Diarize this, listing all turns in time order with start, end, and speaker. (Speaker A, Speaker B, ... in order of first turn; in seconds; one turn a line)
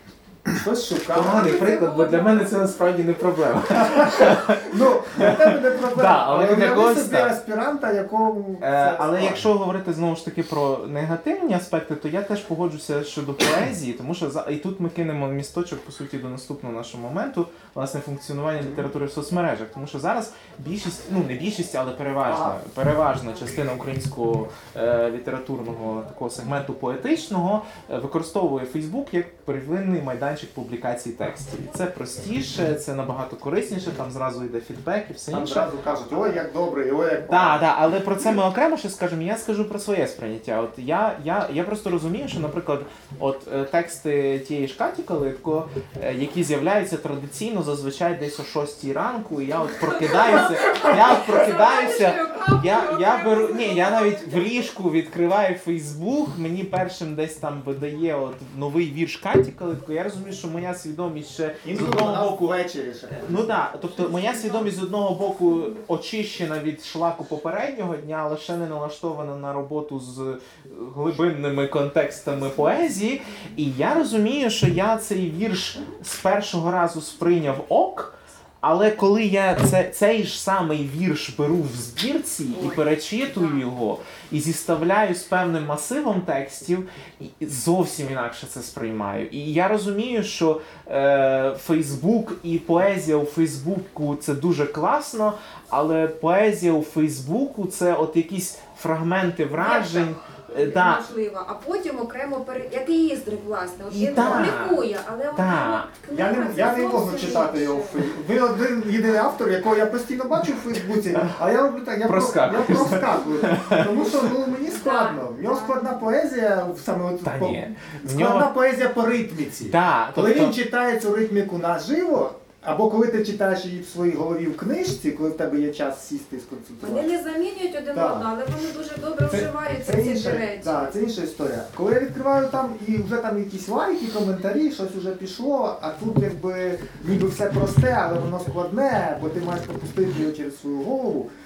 Speaker A: 0.5-2.4
Speaker B: 1.1-5.4
Speaker A: 3.8-9.5
Speaker B: 5.9-7.3
Speaker B: 8.6-35.7
Speaker A: 18.6-18.9
Speaker A: 22.2-22.6
Speaker A: 35.3-37.6
Speaker B: 37.3-62.5
Speaker C: 49.8-54.6
Speaker A: 61.6-63.4
Speaker B: 63.1-101.0
Speaker C: 99.5-108.1
Speaker B: 103.9-105.9
Speaker A: 106.1-127.1
Speaker B: 112.0-114.0
Speaker C: 114.7-115.9
Speaker B: 117.2-118.5
Speaker B: 119.7-120.5
Speaker C: 126.8-130.9
Speaker A: 127.9-128.3
Speaker A: 129.3-141.3